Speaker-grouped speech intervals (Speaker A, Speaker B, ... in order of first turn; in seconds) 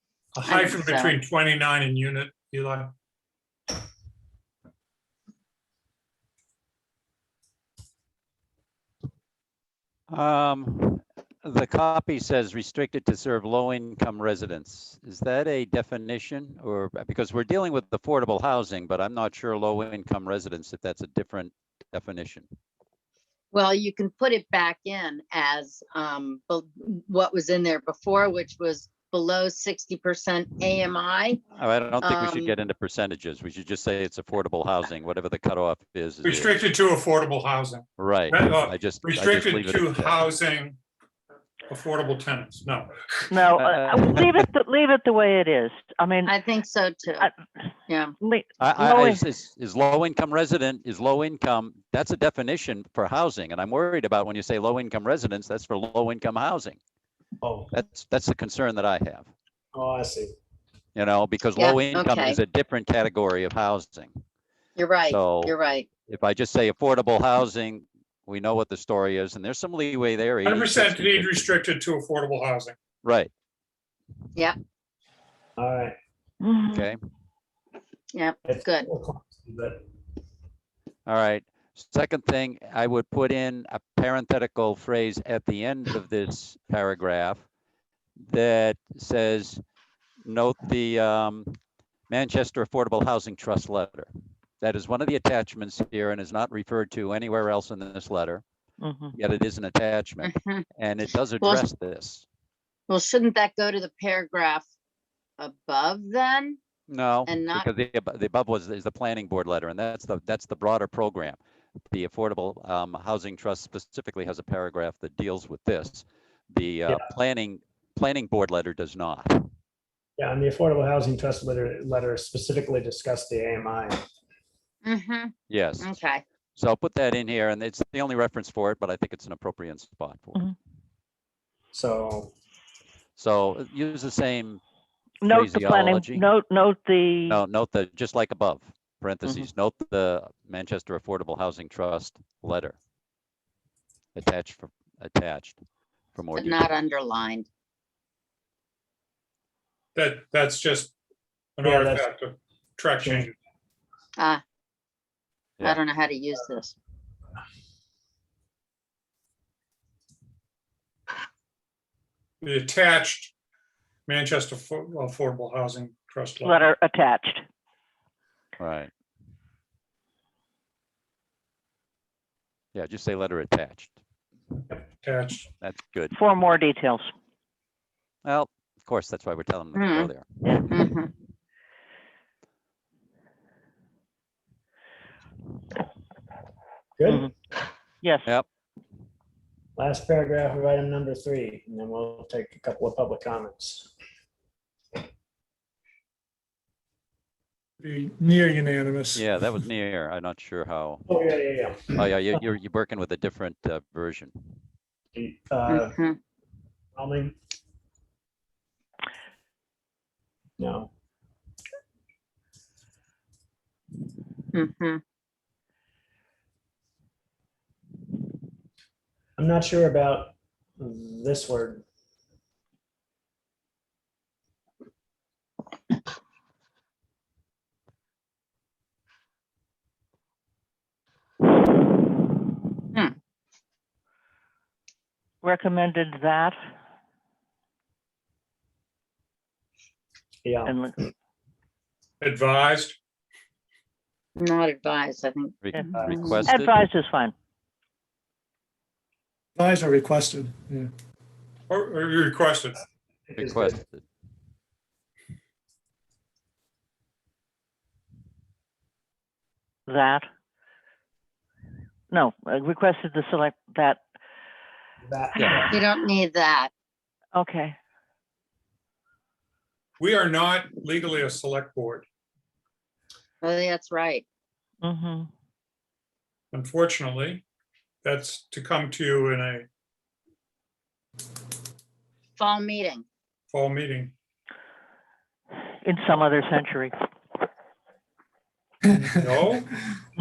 Speaker A: 0.3-2.9, 36.2-40.8, 41.7-43.3, 70.4-72.8, 149.9-150.9, 151.6-153.3, 162.4-163.3, 164.1-166.6, 175.0-175.5, 242.2-243.0, 251.7-252.8, 270.0-272.0, 276.5-277.4, 278.0-279.6, 283.5-284.1, 288.9-289.7
Speaker B: 0.4-1.2, 23.5-31.4, 32.0-32.6, 46.2-47.3, 47.9-48.1, 61.6-62.4, 64.8-65.9, 78.1-78.9, 100.2-100.6, 101.4-101.7, 102.9-104.7, 105.4-106.6, 107.2-107.7, 124.8-126.2, 146.3-147.5, 154.2-154.4, 155.6-156.7, 179.7-180.1, 180.7-181.1, 205.7-206.2, 214.5-215.0, 244.4-246.4, 265.7-266.7, 273.4-274.2, 282.4-283.1
Speaker C: 10.1-22.4, 31.6-36.5, 38.0-40.2, 43.5-44.4, 48.6-56.8, 57.7-59.3, 60.9-64.1, 65.1-65.5, 66.1-71.6, 73.0-73.3, 76.7-77.0, 81.0-87.4, 88.2-89.6, 90.2-91.6, 92.1-94.1, 94.6-98.4, 99.2-102.2, 106.9-111.4, 111.9-119.4, 125.5-125.9, 126.5-130.4, 133.2-134.6, 135.3-136.2, 137.3-142.8, 144.2-145.6, 146.1-146.7, 168.6-168.9, 172.7-173.9, 175.6-176.1, 178.2-180.6, 199.1-201.0, 201.9-204.5, 245.6-246.9, 253.4-254.0
Speaker D: 43.3-46.3, 48.2-49.2, 76.4-76.9, 98.8-99.2, 135.2-137.4, 139.2-139.5, 166.4-167.4, 176.1-177.1, 188.0-188.3, 235.4-236.6, 240.7-240.9, 246.4-247.3, 259.9-260.3, 262.1-264.0, 267.3-267.8, 274.8-275.3, 285.8-286.9
Speaker E: 57.4-57.7, 59.7-60.3, 75.5-75.9, 78.4-79.8, 120.2-124.0, 131.7-132.3, 151.6-152.0, 187.0-187.3, 189.8-193.9, 201.1-202.1, 205.1-205.9, 206.9-207.3, 210.6-210.9, 219.4-221.8, 240.4-240.8, 245.9-246.5, 253.3-253.8, 265.0-265.8
Speaker F: 197.8-199.2, 249.6-250.9, 288.9-289.5